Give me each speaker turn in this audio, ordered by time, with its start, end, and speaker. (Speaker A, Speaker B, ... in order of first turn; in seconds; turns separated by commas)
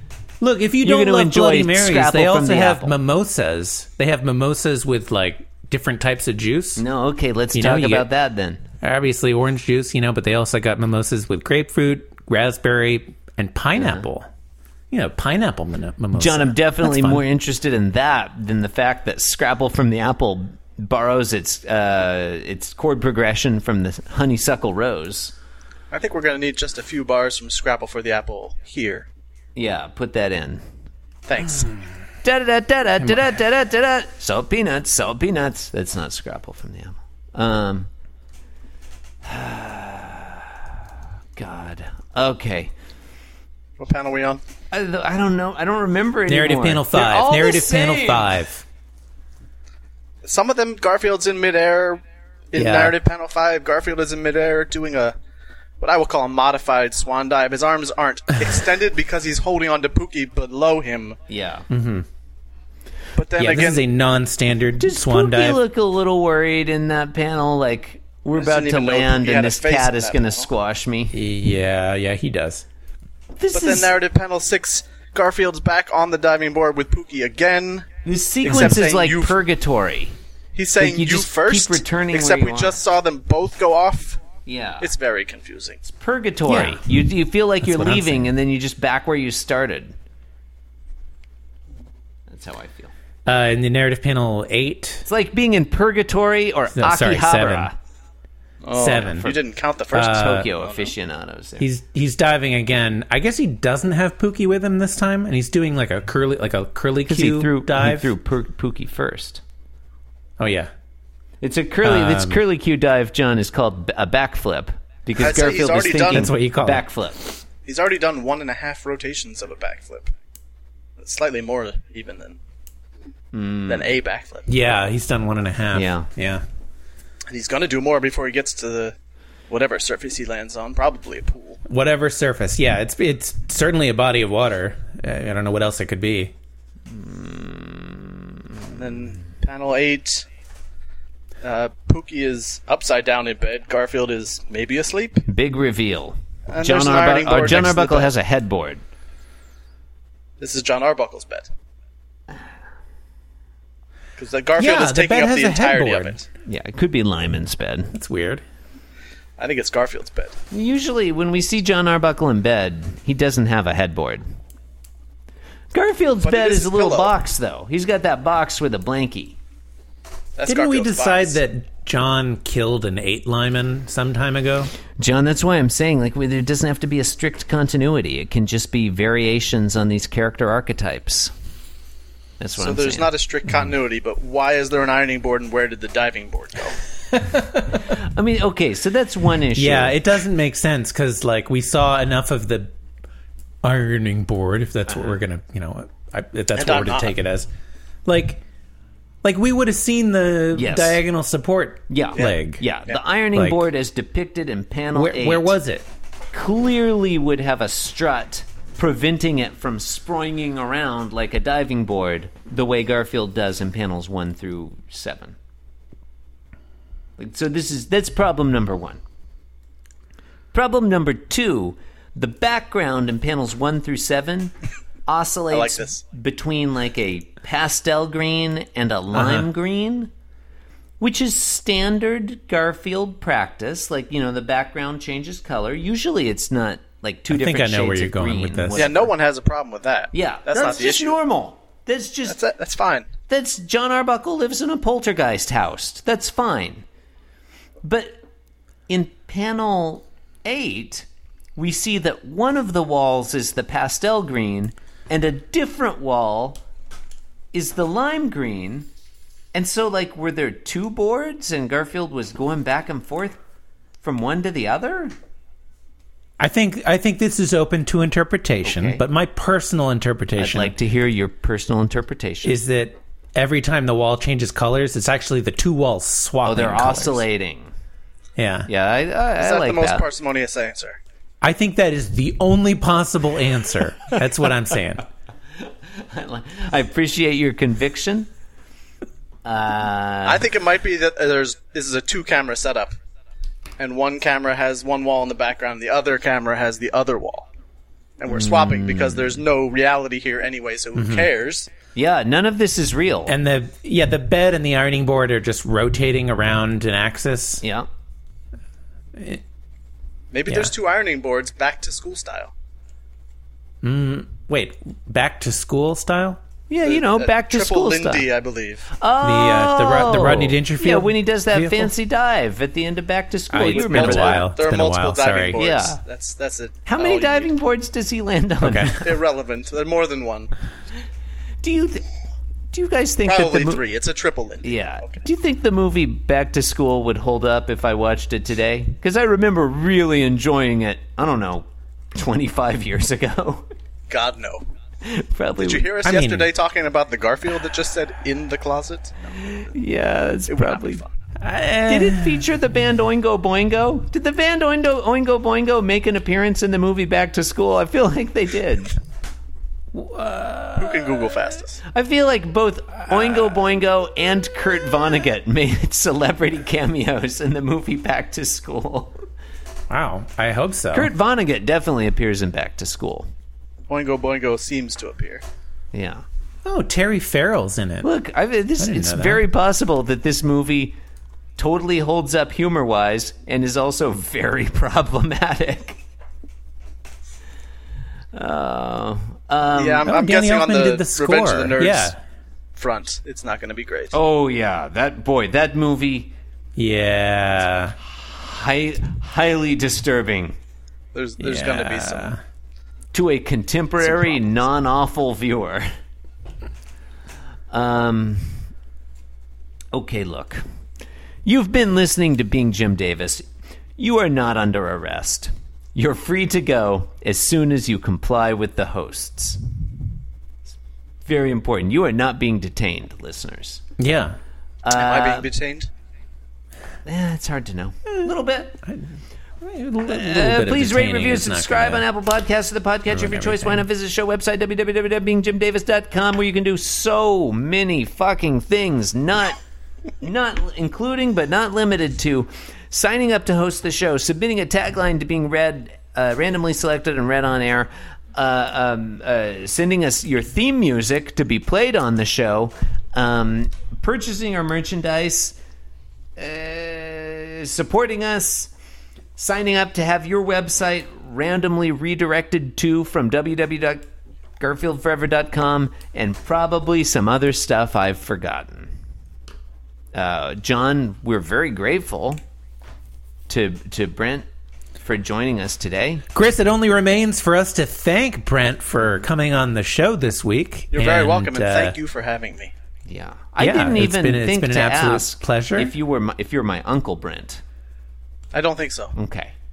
Speaker A: 0.4-6.8, Speaker B: 0.8-3.0, Speaker B: 6.8-8.6, Speaker A: 7.5-8.1, Speaker A: 8.8-14.3, Speaker B: 13.7-14.1, Speaker A: 14.9-17.2, Speaker B: 16.2-25.3, Speaker C: 25.9-29.1, Speaker B: 29.6-30.6, Speaker C: 31.3-31.7, Speaker B: 32.2-37.9, Speaker B: 39.2-40.5, Speaker B: 41.4-42.7, Speaker C: 43.8-44.4, Speaker B: 44.7-48.4, Speaker A: 46.3-48.6, Speaker C: 50.2-55.1, Speaker A: 52.5-53.0, Speaker C: 55.8-61.2, Speaker B: 61.3-61.6, Speaker A: 61.7-62.0, Speaker C: 63.1-63.8, Speaker A: 63.4-65.6, Speaker B: 64.7-71.2, Speaker C: 68.3-70.5, Speaker A: 71.1-72.6, Speaker B: 73.4-73.9, Speaker C: 73.5-77.9, Speaker B: 78.0-80.2, Speaker C: 78.4-79.4, Speaker C: 80.5-84.2, Speaker B: 80.8-82.8, Speaker B: 84.4-84.9, Speaker C: 84.8-85.8, Speaker B: 85.8-89.9, Speaker A: 86.5-86.8, Speaker A: 87.6-88.3, Speaker B: 92.3-92.9, Speaker A: 93.2-95.1, Speaker B: 95.0-97.8, Speaker A: 96.7-97.7, Speaker C: 98.6-100.9, Speaker A: 98.7-99.3, Speaker A: 99.9-100.5, Speaker B: 100.0-101.7, Speaker A: 101.6-108.1, Speaker B: 107.0-109.4, Speaker A: 110.4-110.7, Speaker B: 111.4-117.4, Speaker A: 111.8-112.4, Speaker C: 115.1-116.3, Speaker A: 116.1-116.8, Speaker C: 117.6-120.1, Speaker C: 121.0-122.4, Speaker B: 123.3-123.9, Speaker C: 123.7-124.5, Speaker A: 124.5-126.4, Speaker B: 125.7-126.1, Speaker C: 127.3-128.9, Speaker C: 129.5-131.6, Speaker A: 131.7-136.3, Speaker B: 136.9-138.1, Speaker C: 138.7-140.2, Speaker C: 141.4-145.2, Speaker B: 145.2-148.8, Speaker C: 146.5-148.2, Speaker C: 150.4-151.5, Speaker C: 154.2-156.3, Speaker A: 154.6-156.2, Speaker B: 156.4-157.9, Speaker A: 157.9-158.4, Speaker C: 159.4-160.3, Speaker B: 160.5-164.2, Speaker B: 165.7-169.4, Speaker C: 166.2-167.2, Speaker C: 170.3-171.4, Speaker A: 170.4-174.7, Speaker B: 175.0-181.3, Speaker B: 182.4-183.1, Speaker C: 182.6-186.8, Speaker A: 187.1-187.7, Speaker B: 187.8-190.0, Speaker A: 189.5-192.7, Speaker A: 193.6-197.5, Speaker B: 194.9-195.2, Speaker C: 196.5-197.1, Speaker A: 198.1-198.4, Speaker A: 199.2-202.7, Speaker B: 200.5-201.0, Speaker B: 201.9-205.6, Speaker C: 202.2-203.0, Speaker A: 203.3-203.6, Speaker A: 204.9-205.8, Speaker B: 206.3-215.3, Speaker B: 217.2-219.0, Speaker B: 220.5-224.5, Speaker B: 225.1-230.1, Speaker C: 225.5-226.0, Speaker A: 229.1-229.5, Speaker B: 231.0-239.1, Speaker A: 237.3-239.0, Speaker C: 238.7-241.2, Speaker B: 240.1-242.4, Speaker C: 242.2-243.1, Speaker B: 243.3-246.8, Speaker B: 247.8-248.2, Speaker B: 248.9-256.6, Speaker B: 257.5-258.9, Speaker B: 259.5-263.4, Speaker B: 264.0-265.1, Speaker A: 266.4-270.7, Speaker B: 268.6-269.0, Speaker B: 270.4-272.6, Speaker A: 272.4-277.2, Speaker B: 276.4-277.7, Speaker A: 278.4-278.7, Speaker B: 278.7-280.1, Speaker C: 279.4-281.0, Speaker A: 281.4-285.0, Speaker B: 286.0-288.3, Speaker B: 289.4-290.4, Speaker C: 290.2-292.9, Speaker C: 293.8-297.4, Speaker C: 298.2-301.7, Speaker B: 298.3-299.4, Speaker A: 300.9-301.3, Speaker B: 301.9-303.3, Speaker A: 303.3-307.6, Speaker B: 307.6-307.9, Speaker A: 309.1-309.4, Speaker C: 310.3-312.5, Speaker A: 310.4-310.7, Speaker A: 313.8-316.4, Speaker B: 316.7-318.3, Speaker C: 316.8-318.9, Speaker B: 319.0-324.5, Speaker A: 319.2-321.9, Speaker A: 323.5-325.6, Speaker C: 323.6-327.5, Speaker B: 325.6-326.0, Speaker B: 326.9-329.1, Speaker A: 328.6-328.9, Speaker C: 329.0-330.5, Speaker B: 331.6-332.0, Speaker B: 332.7-333.8, Speaker C: 333.2-335.2, Speaker B: 334.6-343.6, Speaker C: 344.1-344.6, Speaker B: 345.0-345.9, Speaker C: 345.6-349.2, Speaker A: 346.0-346.5, Speaker B: 349.3-351.0, Speaker C: 350.5-351.1, Speaker A: 351.4-352.4, Speaker B: 351.9-358.9, Speaker A: 359.9-361.4, Speaker C: 360.7-361.8, Speaker B: 361.9-369.2, Speaker A: 369.9-371.1, Speaker B: 370.9-373.3, Speaker C: 373.9-375.4, Speaker B: 375.9-376.2, Speaker A: 376.6-378.1, Speaker B: 378.0-380.9, Speaker A: 378.8-379.4, Speaker B: 381.6-386.0, Speaker B: 388.3-390.1, Speaker C: 389.7-392.1, Speaker A: 390.1-392.2, Speaker C: 392.8-394.2, Speaker B: 394.1-396.3, Speaker A: 396.8-397.9, Speaker B: 398.0-400.6, Speaker C: 401.1-402.4, Speaker A: 401.4-402.4, Speaker B: 403.1-405.9, Speaker C: 404.0-404.5, Speaker B: 407.7-408.6, Speaker B: 409.9-410.6, Speaker B: 411.4-413.4, Speaker B: 414.0-419.6, Speaker B: 421.2-423.8, Speaker A: 424.0-424.4, Speaker B: 424.8-425.5, Speaker C: 424.9-425.9, Speaker B: 427.0-428.8, Speaker A: 429.6-432.0, Speaker B: 430.1-439.6, Speaker A: 433.1-433.9, Speaker B: 440.2-455.6, Speaker B: 456.4-458.7, Speaker B: 459.4-464.0, Speaker B: 464.6-468.9, Speaker B: 470.1-472.4, Speaker B: 473.5-474.4, Speaker B: 475.0-476.2, Speaker A: 476.3-482.0, Speaker C: 480.9-482.7, Speaker B: 483.1-487.6, Speaker A: 483.6-485.9, Speaker C: 488.5-489.1, Speaker B: 489.1-489.5